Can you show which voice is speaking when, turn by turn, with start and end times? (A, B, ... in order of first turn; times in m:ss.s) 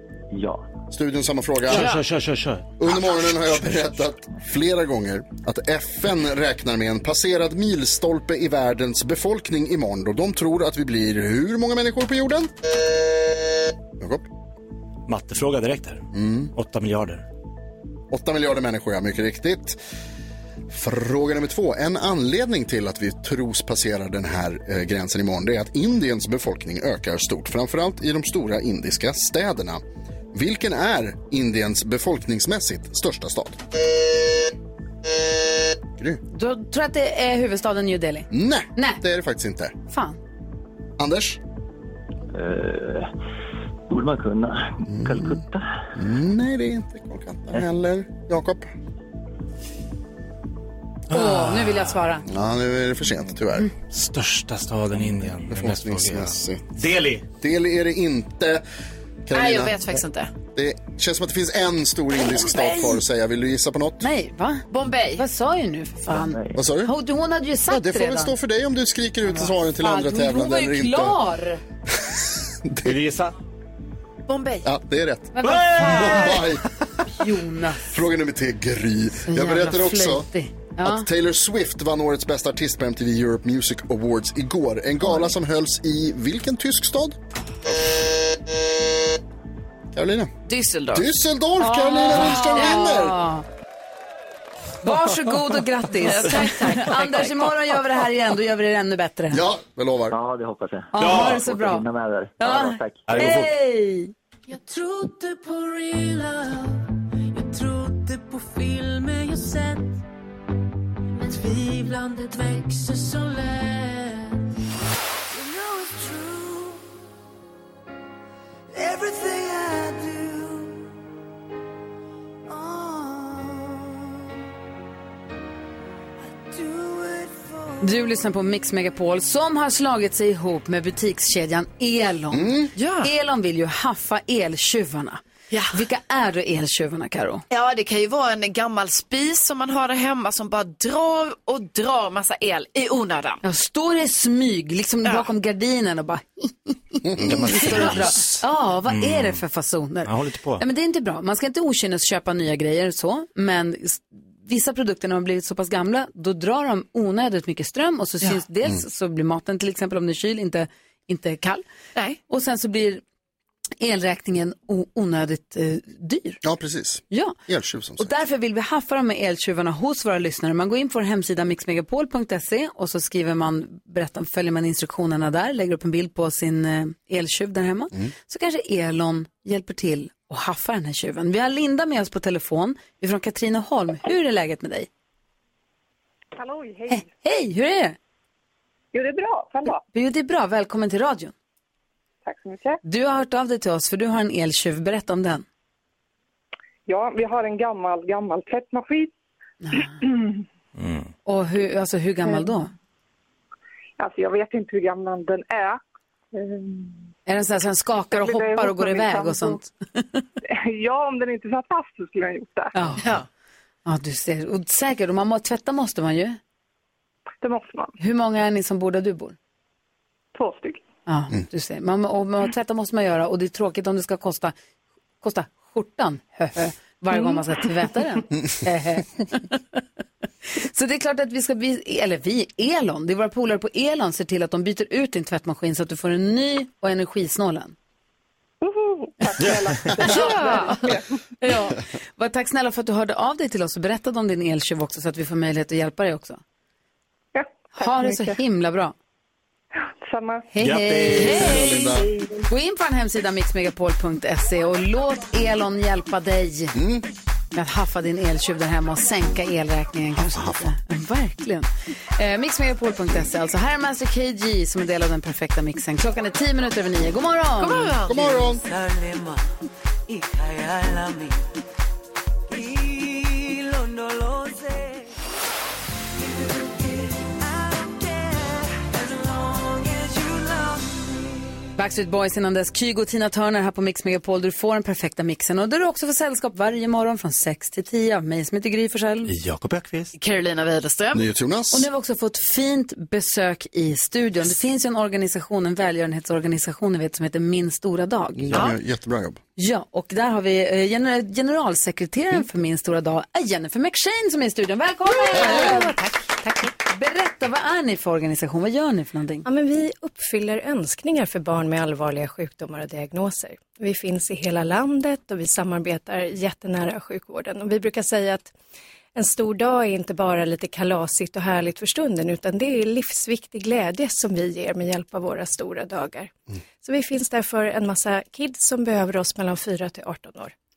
0:00.3-0:00.6 A
0:00.9-0:01.9 B
0:01.7-0:02.7 C
0:01.7-0:02.0 D
0:02.8-0:12.5 B
0:14.0-0:14.3 B
0:15.1-0:17.2 C
0:16.1-0:16.5 B
0:18.1-0:19.8 B
0:20.7-0:33.6 B
0:36.3-0:39.0 E
0:38.3-0:39.7 B
0:39.9-0:40.2 E
0:41.0-0:41.4 B
0:42.3-0:43.0 A
0:43.9-0:45.6 A
0:44.9-0:45.4 B
0:46.0-0:48.7 B
0:51.1-0:52.0 C
0:51.1-0:52.2 E
0:52.2-0:53.7 B
0:53.9-0:57.2 C
0:55.4-0:56.6 B
0:57.4-0:58.6 B
0:59.3-0:59.8 B
0:59.3-1:00.3 D
1:00.5-1:04.0 B
1:02.3-1:02.8 E
1:04.0-1:08.3 E
1:04.7-1:05.2 D
1:06.1-1:06.6 A
1:06.5-1:06.9 B
1:07.7-1:11.2 B
1:09.3-1:11.6 E
1:11.9-1:13.0 B
1:12.8-1:13.3 C
1:14.3-1:14.7 D
1:14.6-1:16.6 B
1:15.3-1:16.4 E
1:15.4-1:16.2 C
1:17.1-1:17.9 E
1:17.9-1:20.3 B
1:19.2-1:21.1 E
1:20.8-1:27.2 B
1:29.9-1:30.3 B
1:30.5-1:31.1 D
1:30.9-1:33.2 B
1:31.6-1:33.4 E
1:32.6-1:32.8 D
1:34.8-1:39.4 E
1:36.0-1:37.5 D
1:39.3-1:40.2 B
1:40.1-1:43.2 A
1:40.9-1:41.5 C
1:40.9-1:41.9 E
1:42.4-1:44.1 E
1:43.0-1:43.5 C
1:44.5-1:50.0 F
1:51.1-1:54.5 F
1:55.3-1:56.8 F
1:58.7-2:00.9 F
2:02.5-2:03.8 F
2:06.5-2:07.5 F
2:07.8-2:15.2 E
2:12.3-2:12.7 B
2:12.8-2:13.1 D
2:15.5-2:15.8 D
2:15.7-2:17.4 E
2:17.5-2:23.4 D
2:23.4-2:41.6 E
2:27.0-2:28.0 B
2:27.2-2:29.4 C
2:30.0-2:30.6 C
2:42.3-2:43.0 E
2:43.8-2:46.4 E
2:46.4-2:48.1 B
2:47.1-2:47.4 E
2:48.0-3:04.9 E
3:06.3-3:07.1 G
3:06.9-3:08.0 E
3:08.9-3:09.8 G
3:09.9-3:11.3 E
3:12.2-3:12.8 G
3:12.8-3:15.4 E
3:16.9-3:19.1 G
3:19.6-3:20.0 E
3:19.7-3:20.4 G
3:20.8-3:21.1 C
3:21.2-3:22.7 E
3:22.2-3:22.5 G
3:24.0-3:25.8 G
3:26.3-3:27.0 G
3:27.3-3:30.2 E
3:28.1-3:29.6 G
3:30.5-3:32.7 G
3:32.7-3:33.1 E
3:33.0-3:33.2 D
3:33.8-3:36.4 E
3:37.4-3:37.9 G
3:38.0-3:39.4 E
3:40.3-3:40.8 G
3:41.1-3:44.5 E
3:45.2-3:49.8 E
3:50.6-3:57.7 E
3:58.6-4:01.0 G
4:00.1-4:00.8 E
4:00.1-4:00.8 D
4:01.4-4:06.4 E
4:07.3-4:08.4 G
4:07.8-4:08.9 E
4:10.0-4:10.4 G
4:10.5-4:11.9 E
4:10.6-4:11.8 C
4:11.2-4:12.1 B
4:12.0-4:12.4 G
4:12.5-4:16.8 E
4:16.7-4:17.0 B
4:17.5-4:27.9 E
4:20.2-4:20.7 B
4:27.6-4:28.5 D
4:28.0-4:28.6 B
4:30.4-4:31.3 F
4:33.4-4:34.8 F
4:37.4-4:40.7 F
4:41.8-4:49.3 E
4:49.3-4:50.1 C
4:50.1-4:51.2 D
4:51.1-4:51.9 B
4:51.7-4:58.7 E
4:58.4-4:59.4 B
4:58.5-4:58.8 D
4:59.6-5:05.9 E
5:05.3-5:06.7 H
5:06.9-5:09.4 E
5:09.4-5:18.5 H
5:19.1-5:30.5 H